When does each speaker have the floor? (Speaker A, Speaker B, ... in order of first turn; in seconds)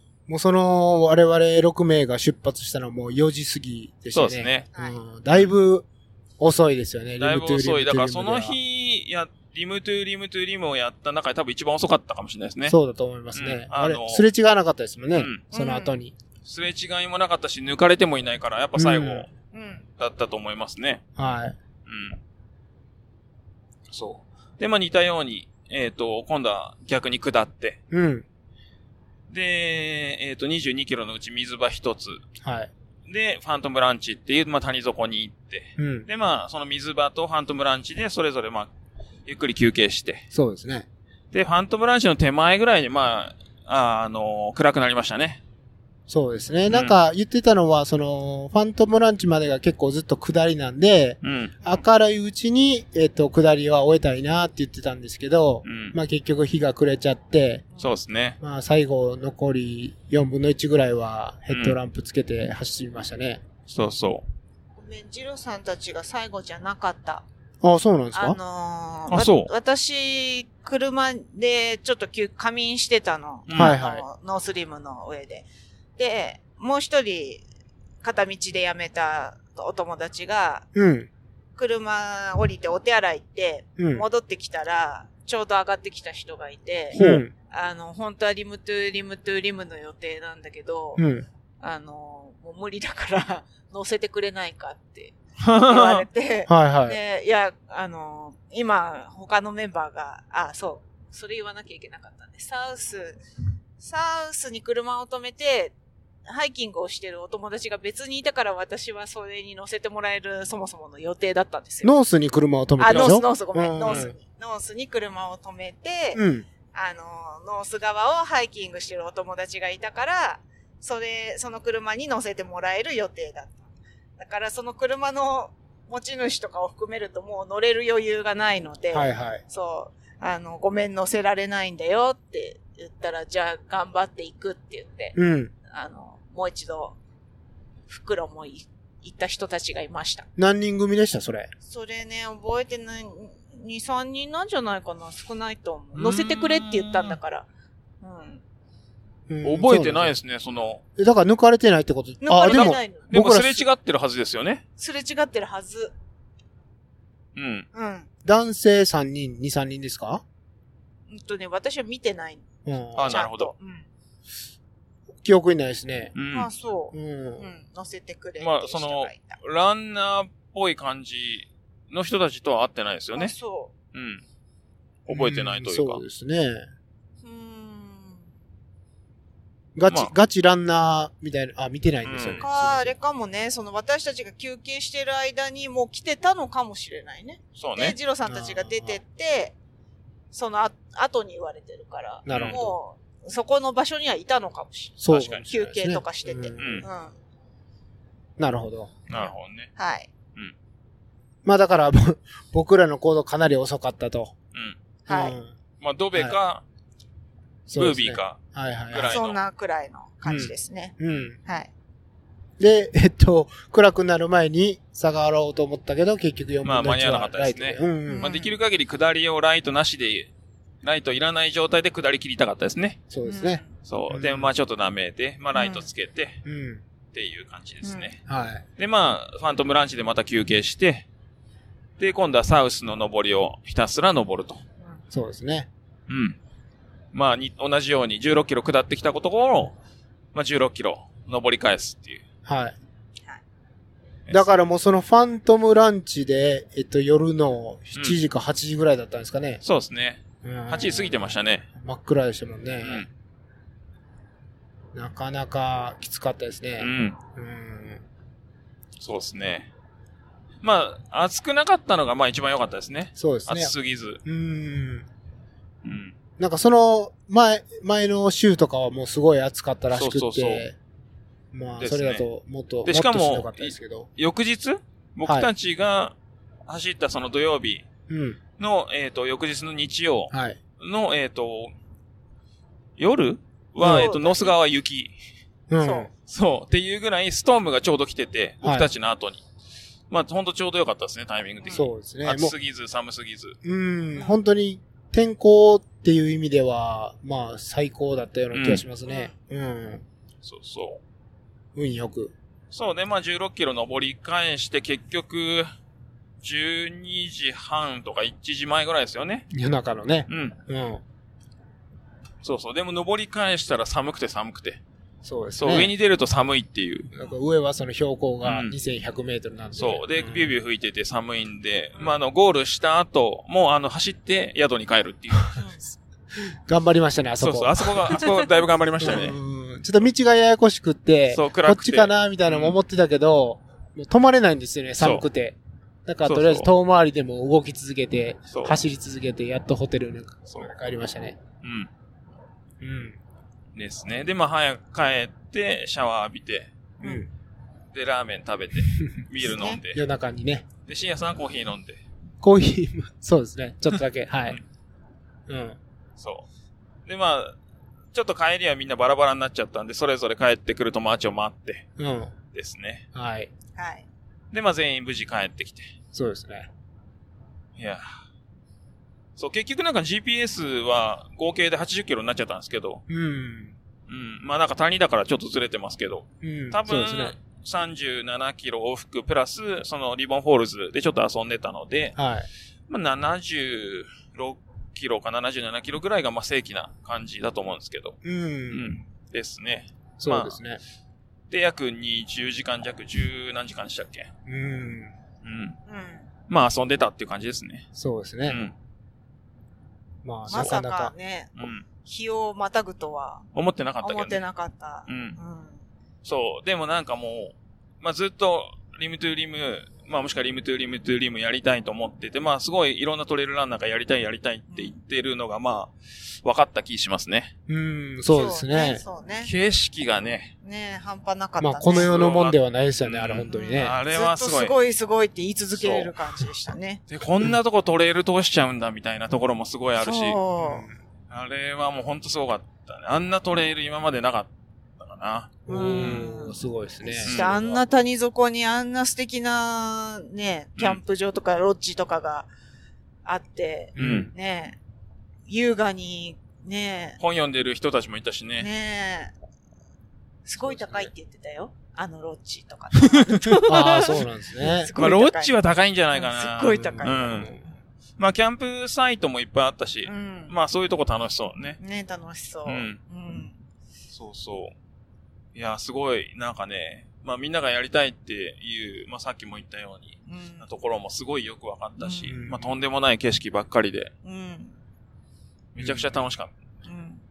Speaker A: 0.3-5.8, 6.4-8.6, 12.7-16.1, 18.8-19.2, 21.1-21.6, 27.9-28.2, 32.4-32.7, 35.8-36.1, 40.3-40.9, 46.1-57.6, 58.4-63.4, 67.6-68.4, 73.5-74.0, 80.7-81.1, 83.8-84.0, 87.0-87.3, 91.0-91.2, 96.5-97.0, 111.8-114.1, 116.1-116.5, 128.9-129.4, 135.1-135.5, 140.4-141.5, 149.3-150.1, 151.0-153.6, 158.2-160.2, 162.6-163.2, 165.2-166.1, 166.9-167.5, 175.1-176.7, 179.8-182.9, 188.2-189.0, 192.2-192.8, 195.0-196.9, 198.4-198.9, 201.4-204.3, 205.1-205.5, 207.7-209.2, 210.2-211.4, 212.6-218.3, 223.1-224.5, 226.4-226.8, 228.3-228.6, 235.1-235.7, 242.4-242.8, 244.3-249.6, 250.4-253.1, 254.9-258.0, 263.1-263.7, 264.2-265.1, 266.4-270.8, 271.5-274.1, 278.1-278.4, 280.3-280.6, 283.8-284.1, 285.7-286.1, 288.6-288.9, 291.7-292.5, 293.6-300.0, 301.7-302.3, 309.5-311.0, 315.2-315.9, 317.1-320.5, 326.4-328.1, 329.0-341.4, 342.8-343.2, 347.0-347.3, 348.9-350.7, 352.4-354.6, 355.5-355.8, 362.0-362.3, 363.1-363.5, 366.1-366.7, 373.1-373.7, 376.4-377.3, 382.1-382.5, 388.2-388.9, 390.2-390.8, 394.4-395.1, 397.9-398.6, 400.2-401.1, 417.7-419.0, 421.6-423.9, 430.6-430.9, 435.7-437.5, 443.9-444.3, 450.6-451.1, 453.6-454.9, 456.9-457.6, 472.3-472.8, 475.8-476.2
Speaker B: 4.1-4.7, 7.2-12.8, 13.3-14.2, 15.1-15.4, 16.4-19.3, 20.0-21.0, 21.9-22.2, 23.9-27.8, 29.3-32.2, 33.1-38.7, 39.2-40.2, 41.3-45.4, 46.7-47.0, 51.2-51.6, 55.6-56.0, 57.8-58.4, 61.5-61.8, 63.7-64.2, 69.1-69.5, 73.5-73.8, 86.9-87.2, 95.4-96.0, 113.8-114.1, 145.9-147.2, 149.4-150.8, 152.5-154.6, 157.3-157.7, 162.9-163.5, 166.1-166.5, 168.4-173.3, 173.9-174.2, 175.1-176.0, 182.0-182.4, 187.6-188.0, 192.3-192.6, 195.1-195.4, 196.6-196.8, 199.1-199.7, 205.8-206.6, 207.7-209.4, 216.6-220.3, 220.8-223.0, 223.8-226.4, 227.1-228.2, 228.8-231.1, 232.0-234.6, 236.1-236.4, 237.1-239.8, 240.3-242.2, 244.3-244.5, 249.6-251.7, 252.8-253.1, 256.8-257.2, 259.0-259.7, 260.6-264.2, 265.8-266.1, 269.9-270.6, 271.8-272.2, 272.8-276.1, 276.7-277.9, 278.6-281.7, 283.0-285.1, 286.2-289.4, 290.1-293.6, 298.5-298.9, 300.4-301.0, 302.7-305.7, 306.4-309.4, 310.3-310.6, 312.4-314.8, 315.6-317.1, 318.4-318.7, 319.8-325.6, 327.4-329.4, 331.3-332.8, 335.0-335.2, 336.2-336.7, 338.5-338.8, 341.6-341.9, 343.7-346.7, 347.9-350.0, 350.9-352.0, 356.2-356.4, 357.1-357.6, 358.1-361.9, 362.5-363.0, 364.5-365.9, 367.8-368.2, 369.4-373.0, 374.1-382.2, 382.9-388.2, 388.7-390.6, 391.5-394.3, 395.4-395.8, 396.5-397.9, 398.4-398.7, 401.6-401.8, 403.5-404.4, 405.1-405.4, 406.2-417.5, 419.4-420.5, 421.9-424.7, 425.8-426.5, 427.1-430.4, 431.3-436.2, 437.1-437.8, 444.0-444.3, 447.2-448.7, 453.0-453.6, 454.9-457.5, 458.2-461.8, 462.6-463.0, 464.1-464.7, 465.5-474.1, 475.7-476.5
Speaker C: 4.7-5.0, 15.5-15.9, 19.5-19.8, 64.8-67.2, 68.1-77.4, 78.0-80.7, 81.6-87.0, 87.5-91.0, 91.6-103.2, 103.8-105.7, 106.3-111.9, 112.8-123.7, 124.2-135.1, 135.7-137.0, 137.9-140.3, 141.6-147.5, 148.0-148.4, 152.2-153.1, 154.8-155.9, 157.7-158.1, 161.1-162.4, 163.0-163.9, 166.3-169.4, 173.1-173.7, 177.2-178.2, 182.4-189.5, 190.3-197.1, 199.1-200.1, 205.1-205.4, 209.0-211.7, 218.1-218.5, 223.2-223.7, 225.5-225.9, 227.8-228.1, 283.8-284.5, 285.8-286.1, 299.1-299.3, 325.5-325.8, 347.0-347.2, 349.6-349.8, 363.8-364.1, 395.9-396.3, 400.5-403.4, 404.0-405.8, 414.7-415.0, 418.3-419.5, 420.6-422.2, 423.4-427.0, 430.0-430.9, 435.7-436.6, 437.2-442.5, 443.2-444.8, 445.5-447.2, 448.6-449.3, 450.4-455.5, 456.1-457.5, 460.1-460.5, 461.8-463.6, 470.3-470.6, 472.0-472.3, 474.2-474.8, 476.9-477.2